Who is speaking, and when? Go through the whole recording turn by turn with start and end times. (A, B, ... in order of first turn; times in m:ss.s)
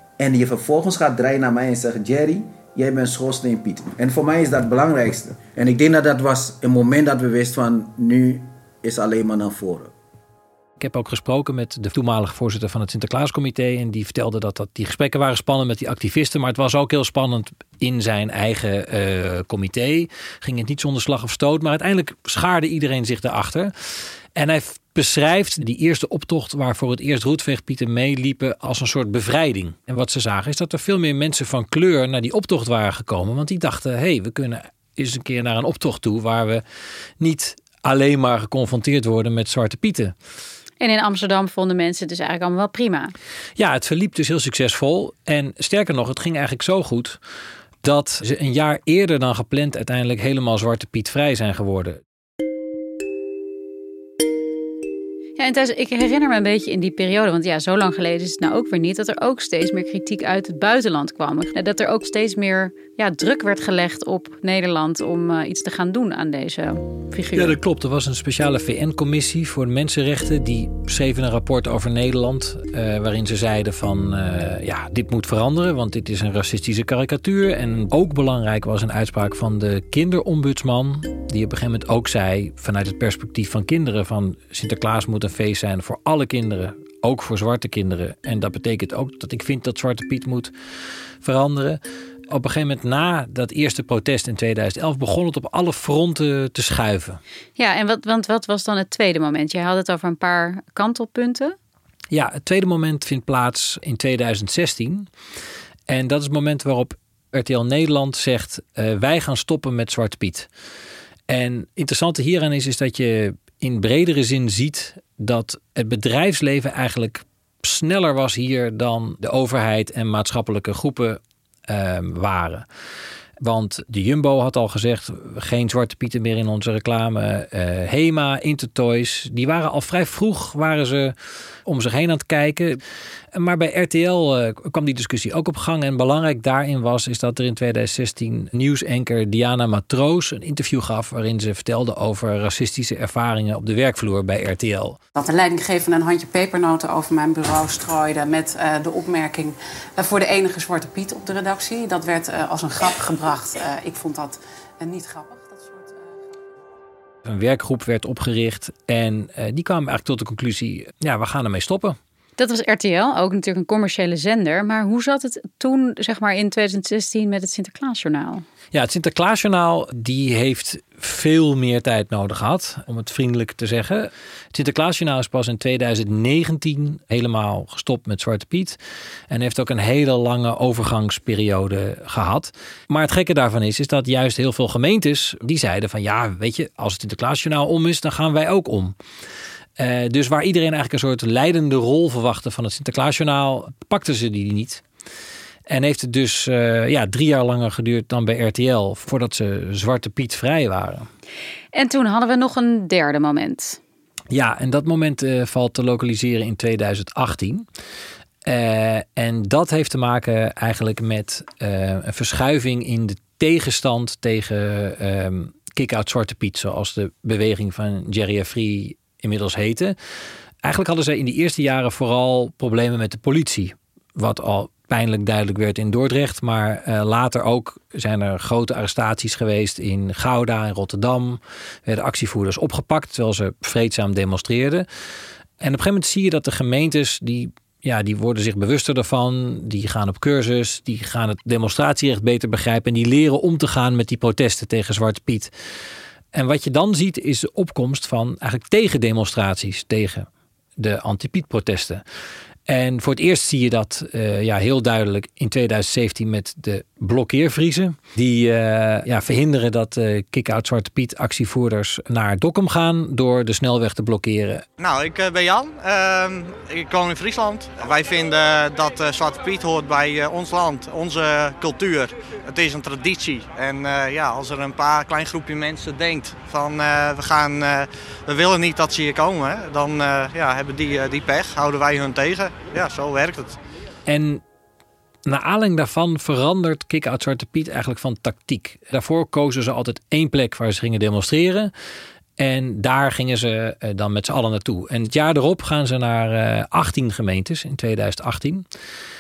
0:00.2-0:09.9 A
0:10.8-0:23.7 B
0:24.4-0:36.6 B
0:37.2-0:40.2 B
0:40.8-0:43.1 C
0:43.6-0:47.2 B
0:47.8-0:52.0 B
0:55.4-1:07.6 C
1:07.4-1:30.5 B
1:31.2-1:37.2 B
1:37.6-1:41.6 C
1:42.1-1:45.1 B
1:45.9-1:50.5 B
1:51.3-2:02.7 B
2:03.4-2:11.2 B
2:11.7-2:12.8 B
2:13.3-2:25.0 B
2:25.2-2:35.8 D
2:37.2-2:42.0 B
2:42.4-2:48.4 C
2:48.7-2:58.8 B
2:59.3-3:09.0 B
3:09.8-3:14.8 B
3:15.7-3:21.1 B
3:21.7-3:23.8 C
3:24.3-3:27.7 B
3:28.5-3:40.0 B
3:40.6-3:54.9 B
3:55.6-4:05.5 B
4:06.3-4:12.0 B
4:12.7-4:24.6 B
4:24.8-4:43.6 E
4:44.1-4:44.4 B
4:45.3-4:51.7 B
4:52.4-4:58.7 B